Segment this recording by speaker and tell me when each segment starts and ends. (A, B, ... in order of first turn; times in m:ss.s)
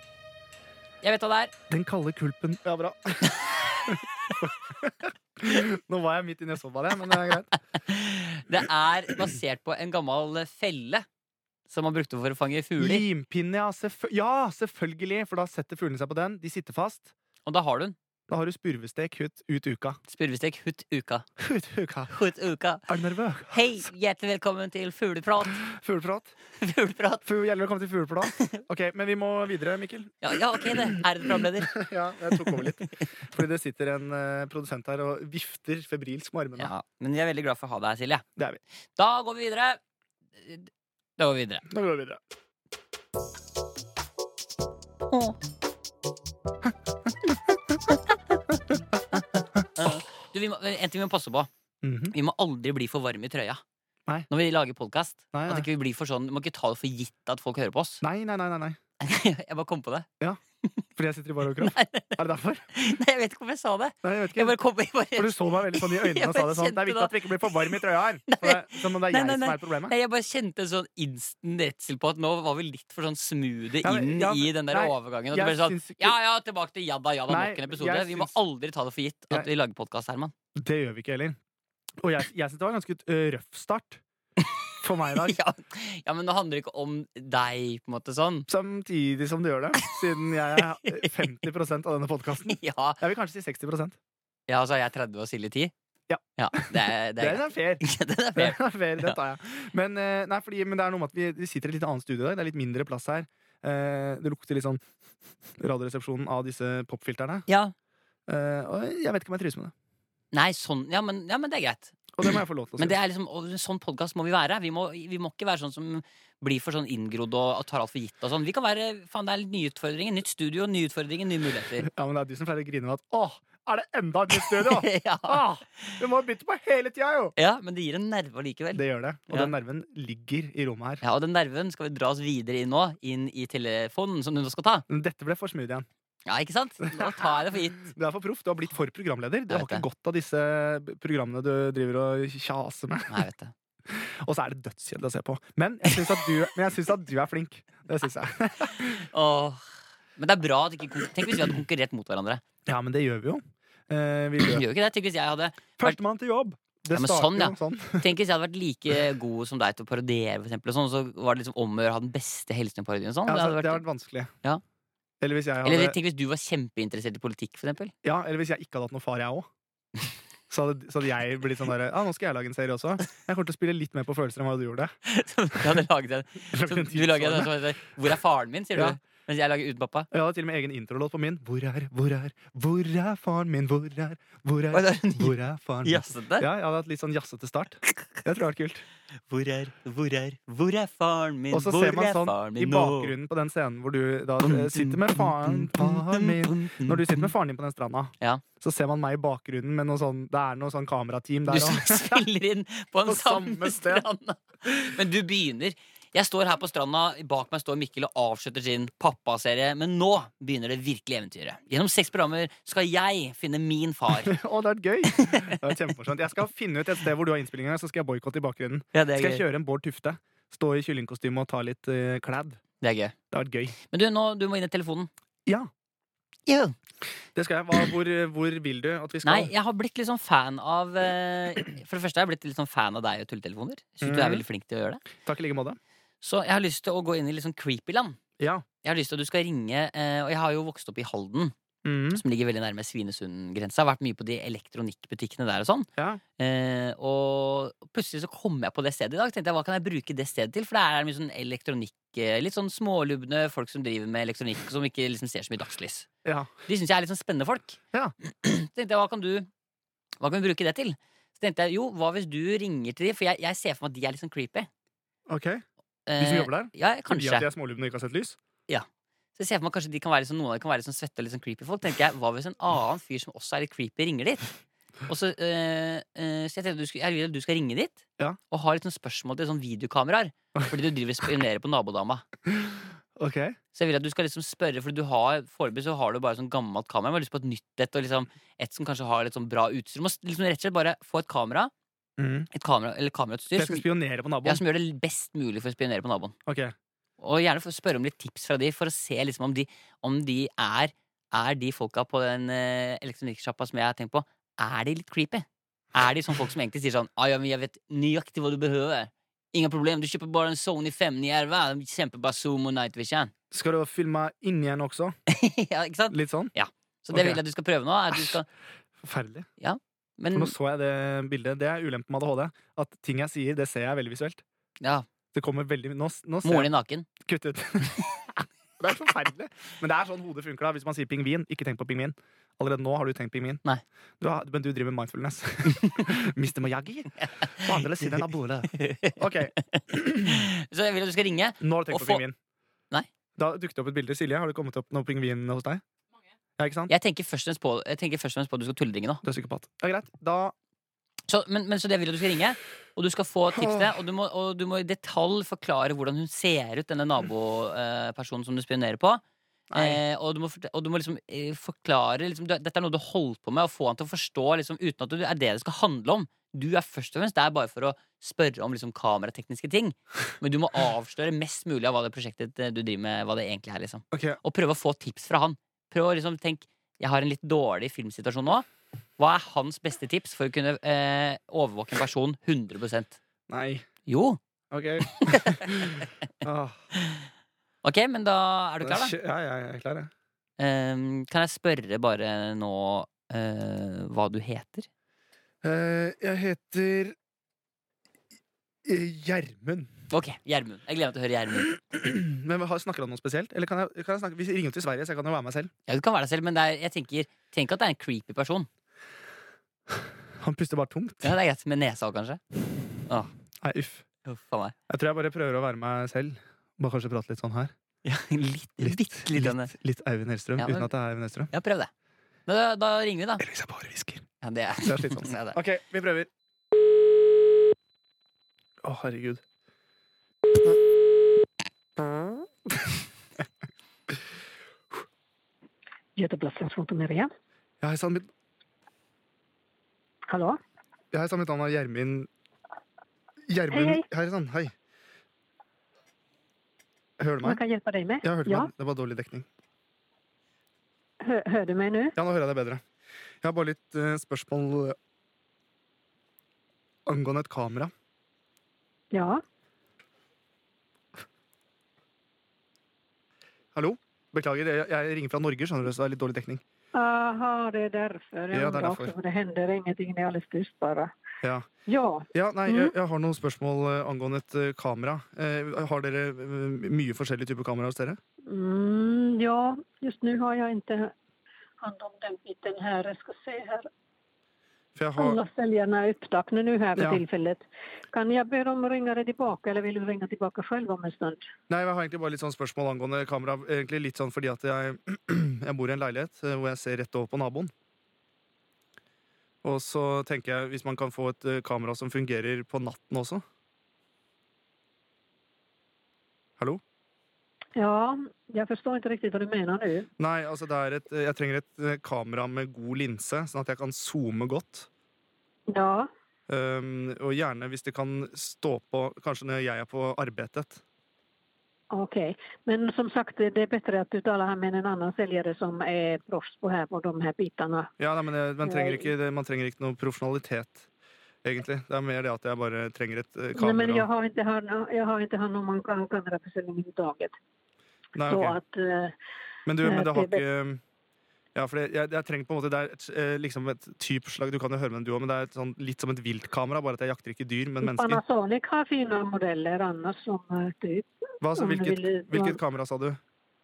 0:01.0-0:01.5 A
0:01.7-0:07.5 B
0:07.8-0:11.0 A
0:11.7-0:13.0 A
0:12.8-0:17.1 B
0:17.4-0:18.0 A
0:18.3-0:20.0 B
0:20.1-0:21.2 A
0:21.4-0:22.1 B
0:22.1-0:22.9 A
0:22.9-0:23.6 B
0:23.5-0:25.6 A
0:25.5-0:26.3 B
0:26.6-0:27.2 A
0:27.2-0:36.7 B
0:28.3-0:28.6 A
0:30.2-0:33.0 A
0:36.6-0:38.2 A
0:39.0-0:39.8 A
0:40.4-0:41.6 A
0:41.7-0:42.2 B
0:45.1-0:45.4 A
0:49.2-0:49.6 B
0:49.8-0:51.5 A
0:51.8-0:52.1 B
0:52.1-0:53.6 A
0:54.3-0:58.0 A
0:55.3-0:55.7 B
0:58.0-0:58.8 B
0:59.0-1:00.1 A
1:01.0-1:02.7 B
1:01.6-1:02.2 A
1:02.7-1:20.3 A
1:04.0-1:04.5 B
1:05.2-1:09.9 B
1:13.8-1:16.2 B
1:17.3-1:18.3 B
1:20.6-1:21.4 B
1:22.0-1:24.0 B
1:24.8-1:25.4 B
1:25.1-1:28.5 A
1:28.5-1:34.0 B
1:30.6-1:31.3 A
1:32.5-1:33.0 A
1:34.5-1:35.7 A
1:36.1-1:37.8 B
1:36.4-1:39.2 A
1:38.4-1:44.8 B
1:45.6-1:47.5 B
1:47.5-1:47.7 A
1:48.3-1:49.7 B
1:50.3-2:01.9 A
1:52.1-1:53.0 B
2:01.8-2:07.3 B
2:04.4-2:06.0 A
2:07.4-2:09.5 A
2:08.7-2:11.0 B
2:11.0-2:14.8 A
2:14.9-2:15.9 B
2:16.2-2:17.9 A
2:16.9-2:23.2 B
2:19.5-2:19.8 A
2:23.1-2:23.5 A
2:23.9-2:29.0 B
2:28.6-2:32.4 A
2:32.6-2:34.6 B
2:34.4-2:36.0 A
2:35.8-2:38.1 B
2:36.9-2:43.8 A
2:43.3-2:44.3 B
2:45.2-2:46.0 B
2:45.6-2:47.9 A
2:48.0-2:49.5 B
2:50.5-2:54.9 B
2:55.0-3:00.1 A
2:56.5-2:57.6 B
3:00.1-3:08.8 B
3:04.7-3:06.4 A
3:09.3-3:13.1 A
3:11.5-3:22.3 B
3:14.4-3:17.3 A
3:21.5-3:34.4 A
3:23.0-3:24.0 B
3:34.2-3:42.6 B
3:35.1-3:35.6 A
3:38.9-3:39.4 A
3:42.8-3:43.1 A
3:43.3-3:43.7 B
3:43.8-3:45.1 A
3:46.4-3:46.8 A
3:47.3-3:49.5 B
3:49.2-3:55.0 A
3:54.0-3:54.4 B
3:55.2-3:55.8 B
3:56.2-3:58.2 A
3:58.4-3:58.6 B
3:58.8-4:01.5 A
4:01.8-4:02.2 B
4:02.1-4:16.1 A
4:16.2-4:16.5 B
4:16.7-4:19.5 A
4:20.2-4:24.7 A
4:25.3-4:25.6 B
4:26.1-4:27.5 A
4:26.2-4:28.4 B
4:28.7-4:34.5 A
4:35.1-4:42.2 A
4:42.5-4:43.6 B
4:43.7-4:51.7 A
4:52.2-4:52.5 B
4:52.5-4:53.8 A
4:53.6-4:54.6 B
4:54.4-4:56.3 A
4:56.4-4:56.7 B
4:57.2-5:13.3 A
5:13.5-5:15.1 B
5:15.3-5:18.5 A
5:16.1-5:16.5 B
5:17.1-5:17.4 B
5:19.0-5:19.5 B
5:19.6-5:20.5 A
5:20.3-5:24.4 B
5:24.8-5:25.0 A
5:25.3-5:33.6 B
5:26.4-5:27.1 A
5:34.2-5:40.4 B
5:35.7-5:36.1 A
5:37.2-5:42.2 A
5:41.6-5:42.4 B
5:43.4-5:45.8 B
5:46.6-5:46.9 B
5:46.9-5:49.2 A
5:49.2-5:50.5 B
5:51.3-5:59.2 A
5:53.5-5:54.0 B
5:59.7-6:00.0 B
5:59.7-6:18.7 A
6:14.1-6:14.4 B
6:19.2-6:23.2 A
6:23.5-6:23.9 B
6:24.0-6:24.4 A
6:24.7-6:26.9 B
6:25.0-6:26.0 A
6:27.0-6:27.3 A
6:27.8-6:29.1 A
6:28.8-6:30.1 B
6:30.6-6:34.9 A
6:35.6-6:37.2 B
6:38.8-6:39.9 B
6:40.1-6:41.7 A
6:41.7-6:45.7 B
6:45.9-6:48.7 A
6:50.4-6:51.3 B
6:51.2-6:52.4 A
6:53.6-6:54.0 B
6:54.2-6:54.7 A
6:54.9-6:57.7 B
6:58.0-6:59.7 A
6:58.8-7:01.5 B
7:00.6-7:00.9 A
7:01.5-7:01.9 A
7:02.5-7:03.4 A
7:03.4-7:04.3 B
7:04.4-7:05.6 A
7:04.8-7:06.3 B
7:08.8-7:09.4 B
7:16.2-7:17.3 C
7:17.8-7:18.3 B
7:20.3-7:20.6 C
7:21.1-7:22.3 B
7:23.5-7:24.7 B
7:23.7-7:24.0 C
7:27.2-7:27.6 B
7:27.4-7:28.7 C
7:28.2-7:29.5 B
7:31.2-7:32.1 C
7:32.2-7:32.8 B
7:33.4-7:35.0 B
7:37.0-7:37.9 B
7:39.1-7:39.4 C
7:43.7-7:46.6 B
7:46.9-7:51.1 C
7:48.5-7:49.1 B
7:51.4-7:51.7 B
7:51.9-7:52.9 C
7:52.3-7:58.2 B
7:58.5-8:01.1 C
8:01.8-8:03.9 C
8:05.0-8:05.4 B
8:05.2-8:11.4 C
8:07.0-8:07.2 B
8:11.7-8:17.7 B
8:19.6-8:23.4 B
8:27.8-8:30.1 C
8:30.2-8:34.9 B
8:35.7-8:36.1 C
8:36.5-8:40.8 B
8:41.9-8:47.9 C
8:48.0-8:50.9 B
8:48.6-8:49.1 C
8:51.4-8:54.1 B
8:53.5-8:57.3 C
8:58.2-8:58.6 B
8:58.3-8:59.1 C
8:59.7-9:00.8 B
8:59.8-9:00.4 C
9:01.5-9:08.2 B
9:07.8-9:12.6 C
9:11.4-9:13.2 B